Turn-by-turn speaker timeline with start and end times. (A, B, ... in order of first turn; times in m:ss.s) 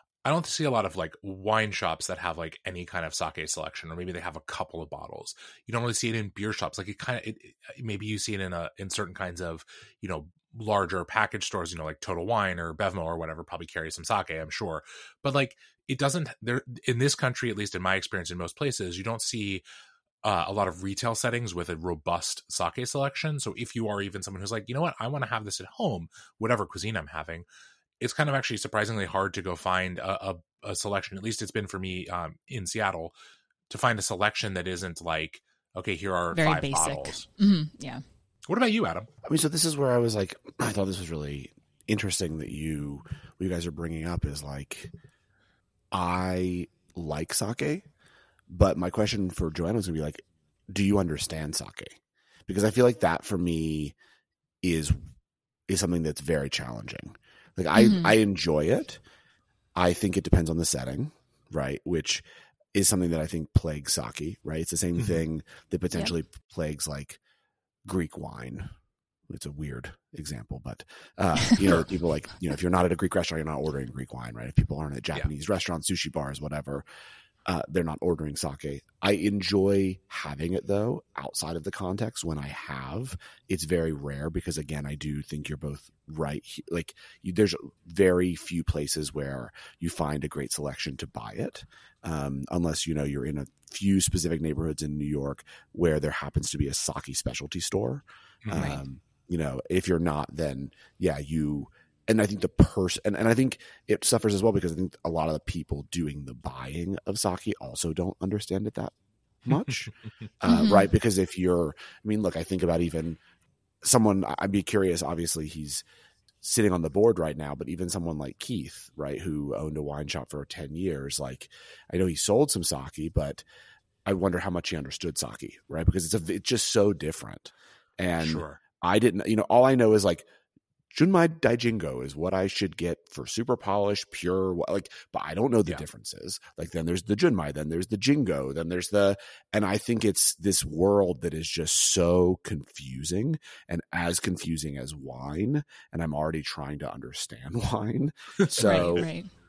0:00.2-0:19.6 A
0:20.2-0:27.5 A
0:28.0-0:33.2 A
0:33.7-0:37.3 A
0:36.3-0:38.0 B
0:38.5-0:39.1 A
0:39.2-0:44.9 C
0:45.9-0:47.9 C
0:48.5-0:54.0 C
0:54.6-0:55.0 C
0:55.7-0:59.0 C
0:57.8-0:58.2 B
0:59.8-1:07.2 C
1:07.8-1:08.7 C
1:09.3-1:16.8 C
1:17.5-1:48.9 C
1:38.4-1:38.8 A
1:38.5-1:38.8 B
1:49.4-1:49.9 C
1:49.5-1:49.9 A
1:50.4-1:53.2 C
1:50.5-1:50.9 B
1:53.8-1:55.8 C
1:56.4-2:03.4 C
2:04.1-2:10.3 C
2:08.2-2:08.6 A
2:10.9-2:29.1 C
2:28.4-2:29.1 A
2:28.6-2:29.3 B